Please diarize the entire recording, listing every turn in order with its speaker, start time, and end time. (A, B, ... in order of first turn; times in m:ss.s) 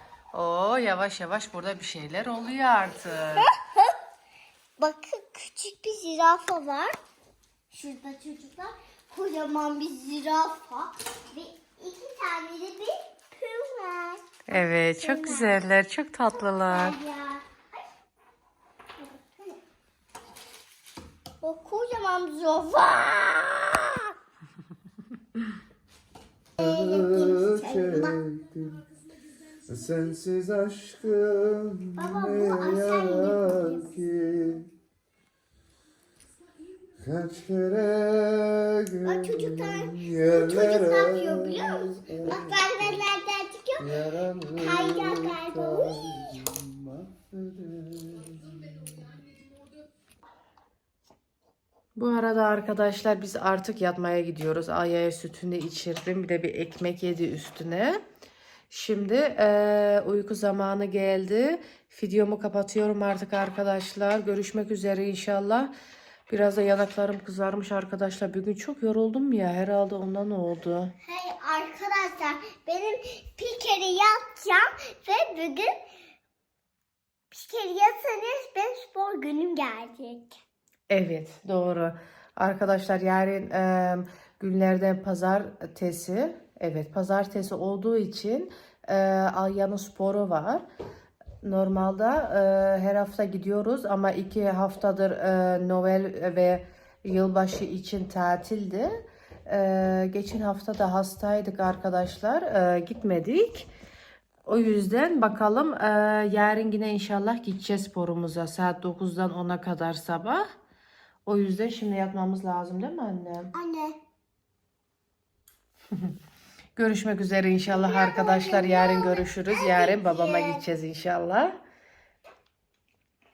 0:00.3-0:03.5 A
0:03.4-0:03.9 B
0:04.8-0:07.0 B
0:07.7-0:15.6 B
0:14.5-0:17.0 A
0:16.6-0:17.4 B
0:21.4-0:24.1 B
0:26.6-0:28.2 B
0:26.6-0:28.8 C
0:29.7-0:34.7 C
0:32.0-0:34.0 B
0:37.0-0:42.8 C
0:39.0-0:46.4 B
0:43.8-0:49.2 C
0:52.0-0:58.0 A
0:58.7-1:05.7 A
1:06.3-1:10.9 A
1:11.0-1:15.8 B
1:17.3-1:20.4 B
1:20.9-1:30.6 A
1:31.4-1:43.7 A
1:44.4-1:50.5 A
1:51.2-1:53.5 A
1:53.5-1:54.0 B
1:56.8-2:01.6 A
1:57.7-2:00.6 B